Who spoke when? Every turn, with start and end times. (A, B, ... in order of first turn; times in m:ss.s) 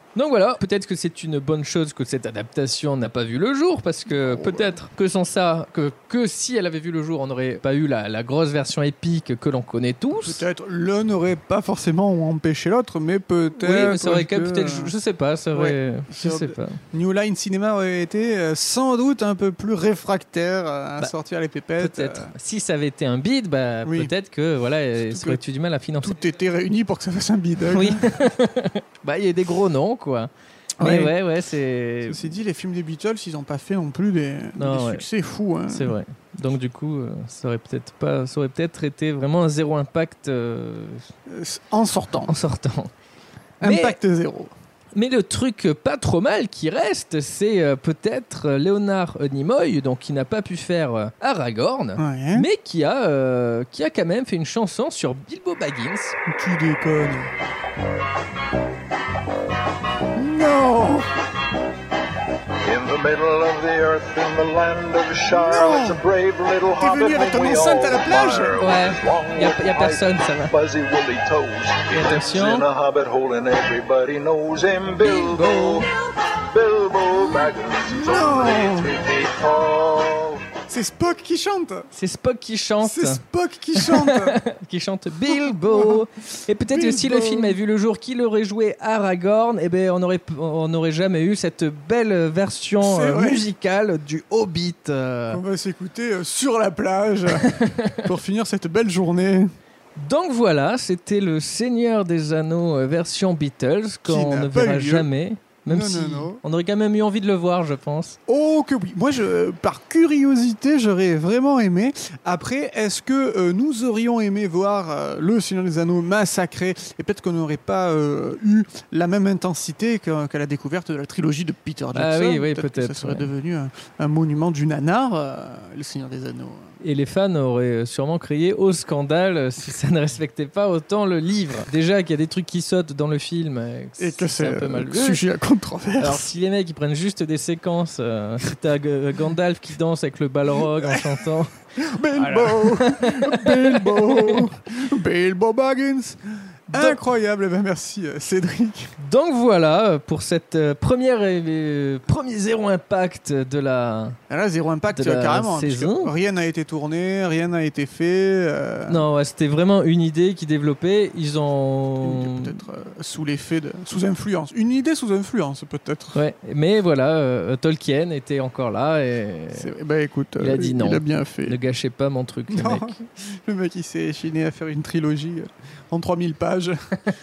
0:00.1-0:10.4 A
0:04.1-0:04.8 B
0:10.1-0:14.9 B
0:13.6-0:16.8 A
0:15.5-0:22.3 B
0:21.8-0:26.2 A
0:23.8-0:24.1 B
0:25.1-0:25.4 B
0:26.0-0:28.1 B
0:27.7-0:32.3 A
0:30.8-0:31.2 B
0:32.1-0:36.0 B
0:34.6-0:35.0 A
0:35.7-0:41.0 A
0:41.3-0:42.3 B
0:42.2-0:42.9 A
0:43.6-0:44.5 B
0:43.6-0:44.0 A
0:44.9-0:56.2 A
0:52.0-0:52.5 B
0:56.3-0:57.3 B
1:00.2-1:01.1 B
1:02.6-1:20.4 C
1:05.3-1:06.0 B
1:06.7-1:08.6 B
1:08.6-1:10.5 A
1:11.9-1:12.7 A
1:15.0-1:15.9 A
1:17.9-1:18.9 B
1:20.7-1:21.9 B
1:21.9-1:23.2 A
1:22.8-1:24.4 B
1:23.8-1:35.4 A
1:25.2-1:26.0 B
1:26.7-1:27.6 B
1:32.8-1:33.5 B
1:35.3-1:37.5 B
1:37.4-1:38.0 A
1:38.0-1:39.5 B
1:40.0-1:48.2 A
1:44.0-1:45.1 B
1:45.7-1:46.4 B
1:48.3-2:06.7 B
2:01.9-2:03.3 A
2:06.8-2:15.2 A
2:14.0-2:16.3 B
2:16.0-2:21.5 A
2:20.8-2:21.1 B
2:21.8-2:28.9 B
2:22.1-2:24.5 A
2:26.7-2:27.0 A
2:29.0-2:34.2 A
2:34.3-2:39.0 B
2:34.9-2:36.1 A
2:38.9-2:42.6 A
2:42.0-2:46.2 B
2:46.1-2:49.7 A
2:49.5-2:51.6 B
2:50.4-2:53.0 A
2:52.5-2:56.8 B